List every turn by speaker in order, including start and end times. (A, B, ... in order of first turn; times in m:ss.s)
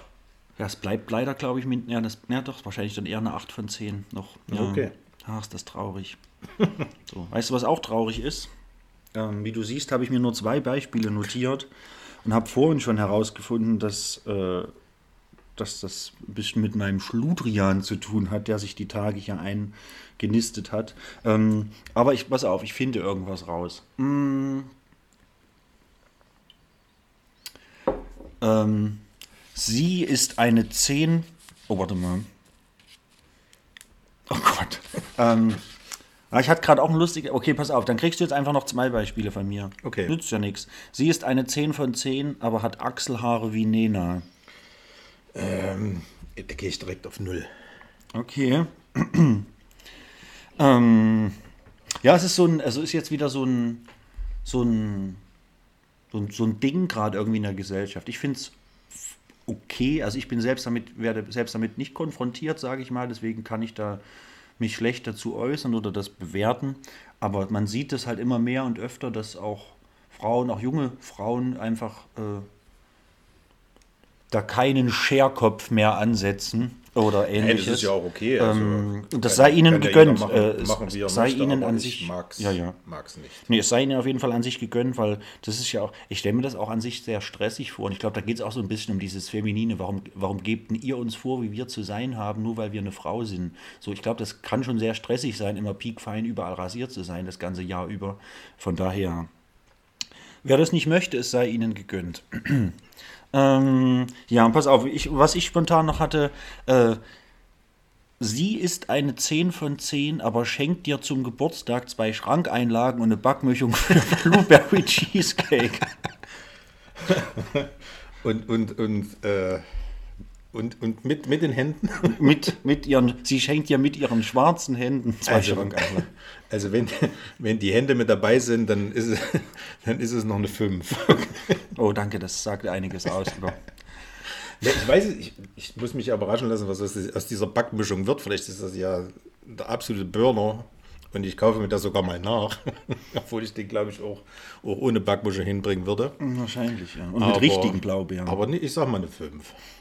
0:00.6-0:06.2 A
0:04.5-0:04.9 B
0:07.1-0:08.5 A
0:09.2-0:11.7 A
0:12.2-0:14.7 A
0:15.6-0:24.7 A
0:28.4-0:29.0 A
0:29.5-0:32.3 A
0:34.3-0:35.6 A
0:36.3-0:44.2 A
0:39.8-0:40.2 B
0:45.3-0:47.5 B
0:48.1-0:49.5 A
0:50.6-0:51.4 A
0:52.0-0:53.9 A
0:54.4-0:55.2 A
0:56.1-1:04.0 A
1:04.6-1:12.5 A
1:14.3-1:22.8 A
1:17.4-1:23.5 B
1:23.5-1:39.3 A
1:40.4-1:42.8 A
1:43.3-1:47.0 A
1:48.2-1:56.0 A
1:57.0-1:57.7 B
1:58.2-1:59.6 B
2:00.5-2:02.4 B
2:02.0-2:06.1 A
2:05.3-2:11.6 B
2:11.7-2:13.6 A
2:14.6-2:26.2 B
2:26.2-2:28.4 A
2:27.2-2:29.6 B